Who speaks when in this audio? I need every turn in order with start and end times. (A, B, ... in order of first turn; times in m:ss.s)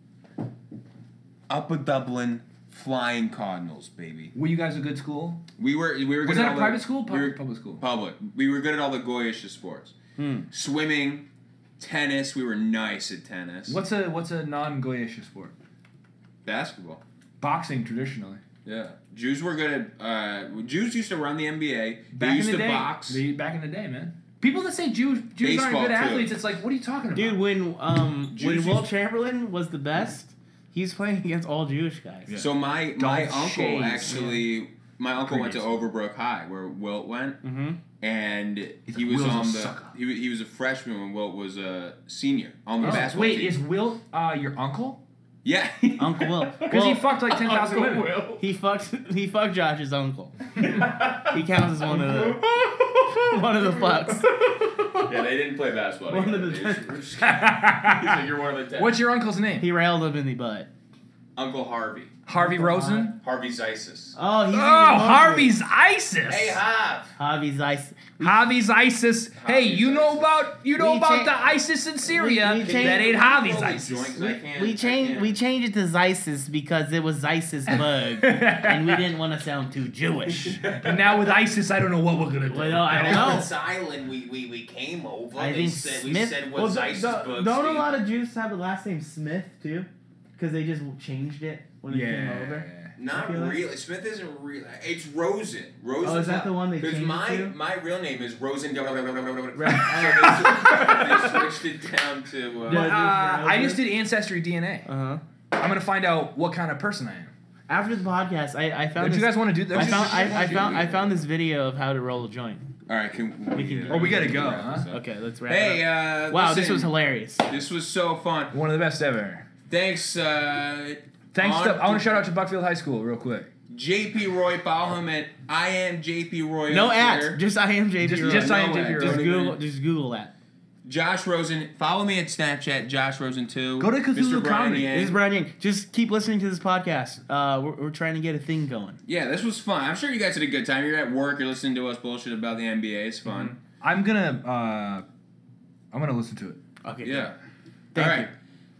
0:01.5-0:04.3 A
0:04.3-0:05.4 B
0:05.6-0:09.9 A
0:06.2-0:07.8 B
0:10.2-0:10.5 C
0:10.5-0:11.3 A
0:11.8-0:13.8 A
0:13.7-0:15.5 B
0:16.4-0:17.0 A
0:17.4-0:18.4 B
0:18.6-0:23.2 A
0:22.1-0:27.4 B
0:25.4-0:26.3 A
0:27.1-0:32.3 C
0:28.4-0:28.8 A
0:32.3-0:37.4 A
0:33.0-0:34.4 C
0:33.3-0:34.3 B
0:35.2-0:35.8 B
0:37.4-0:37.8 C
0:38.0-0:43.6 A
0:38.9-0:39.9 B
0:42.8-0:43.1 C
0:42.8-0:45.0 B
0:45.4-0:48.4 A
0:46.0-0:47.2 C
0:46.6-0:48.2 B
0:48.4-0:50.4 C
0:50.6-0:59.0 A
0:51.1-0:52.4 C
0:53.1-0:54.3 C
0:56.1-0:57.1 C
0:57.2-0:59.7 B
0:59.6-1:00.7 C
1:01.4-1:02.2 A
1:02.2-1:03.2 B
1:02.3-1:03.1 C
1:03.1-1:04.2 A
1:04.2-1:05.6 C
1:04.5-1:06.6 B
1:06.2-1:07.1 A
1:07.2-1:08.5 C
1:08.2-1:14.1 B
1:09.4-1:10.5 A
1:10.8-1:11.4 C
1:12.0-1:13.1 C
1:12.6-1:15.4 A
1:14.1-1:20.6 C
1:17.7-1:19.1 B
1:20.4-1:21.2 A
1:20.8-1:23.5 B
1:22.5-1:23.5 C
1:22.8-1:28.0 A
1:25.4-1:33.6 C
1:31.9-1:33.0 B
1:33.0-1:42.9 A
1:36.0-1:37.5 C
1:39.5-1:41.1 C
1:39.6-1:41.5 B
1:42.6-1:44.9 B
1:42.7-1:43.8 C
1:44.8-1:45.2 C
1:45.5-1:47.3 B
1:47.7-1:52.7 C
1:49.0-1:50.7 B
1:49.7-1:51.1 A
1:52.9-1:56.9 A
1:53.5-1:57.5 C
1:53.9-1:54.9 B
1:57.4-1:58.5 A
1:58.5-1:59.4 B
1:59.7-2:02.2 A
2:01.3-2:03.5 B
2:03.7-2:07.4 A
2:06.7-2:10.3 C
2:08.0-2:09.2 B
2:08.2-2:09.6 A
2:10.8-2:15.2 A
2:13.8-2:14.9 B
2:14.9-2:19.0 C
2:19.0-2:23.5 A
2:23.3-2:23.5 C
2:23.8-2:25.0 B
2:25.9-2:26.6 B
2:26.8-2:27.3 C
2:27.0-2:27.3 A
2:27.9-2:28.3 C
2:27.9-2:28.3 A